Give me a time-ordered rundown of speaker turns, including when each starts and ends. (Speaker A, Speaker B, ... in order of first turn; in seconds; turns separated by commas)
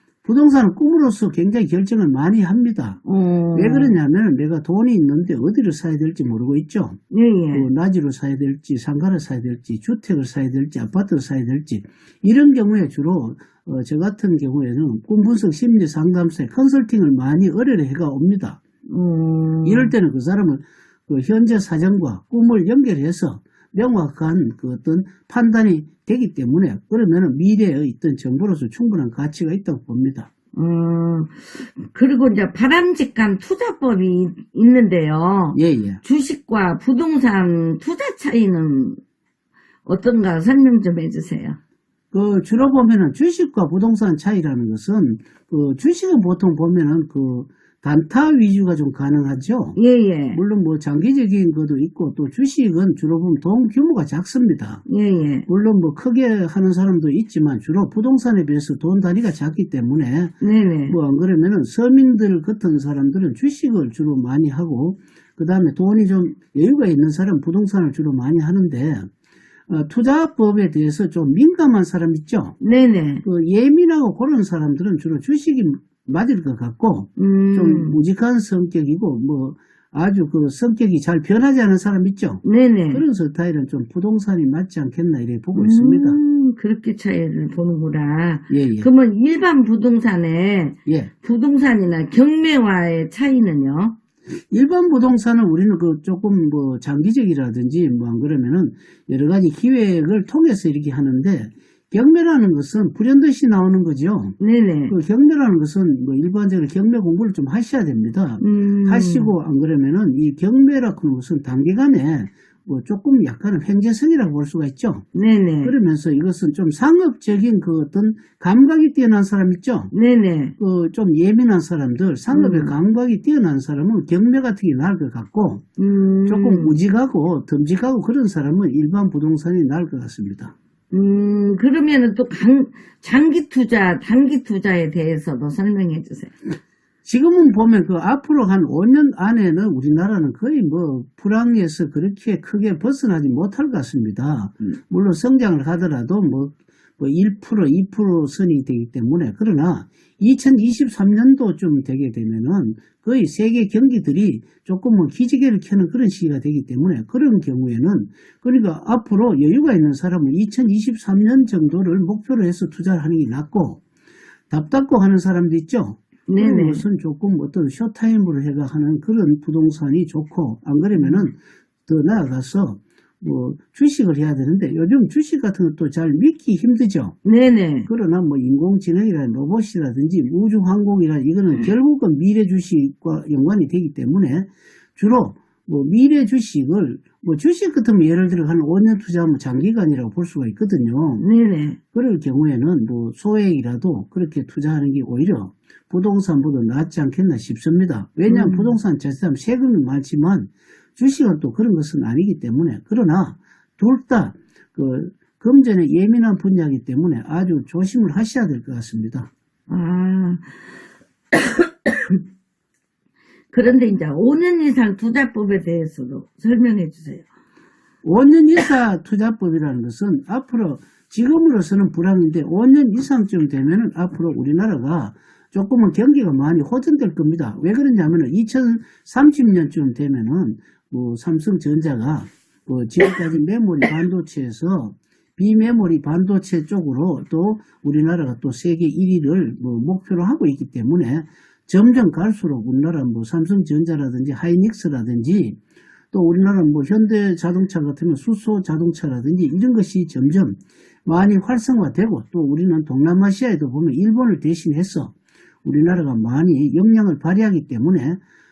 Speaker A: 0.2-3.0, Speaker B: 3.0-4.0, Speaker A: 3.5-7.0, Speaker B: 7.1-7.7, Speaker A: 7.5-18.6, Speaker B: 18.9-19.9, Speaker A: 19.6-30.3, Speaker B: 30.5-39.0, Speaker A: 35.5-36.0, Speaker B: 39.8-41.6, Speaker A: 42.1-49.8, Speaker B: 49.8-50.4, Speaker A: 50.3-54.8, Speaker B: 54.9-55.5, Speaker A: 55.5-60.4, Speaker B: 60.4-61.0, Speaker A: 60.9-69.1, Speaker A: 69.7-72.6, Speaker B: 72.6-73.2, Speaker A: 73.2-86.2, Speaker B: 77.2-78.0, Speaker B: 82.4-83.0, Speaker B: 85.5-94.0, Speaker A: 88.5-88.9, Speaker A: 90.8-91.1, Speaker A: 94.5-104.3, Speaker B: 104.4-104.9, Speaker A: 104.9-115.0, Speaker B: 108.4-109.3, Speaker B: 115.1-115.7, Speaker A: 115.6-119.9, Speaker B: 119.9-120.5, Speaker A: 120.6-125.6, Speaker B: 122.3-122.7, Speaker B: 125.8-126.8, Speaker A: 126.2-130.5, Speaker B: 130.9-136.3, Speaker A: 137.0-163.8, Speaker A: 164.5-177.2, Speaker B: 166.3-166.8, Speaker B: 170.9-171.3, Speaker B: 177.2-177.9, Speaker A: 177.8-191.2, Speaker B: 191.2-191.8, Speaker A: 191.9-209.3, Speaker B: 198.3-198.8, Speaker B: 209.7-210.5, Speaker B: 211.3-212.2, Speaker B: 213.5-217.3, Speaker A: 218.0-245.6, Speaker A: 246.1-255.1, Speaker A: 255.6-258.2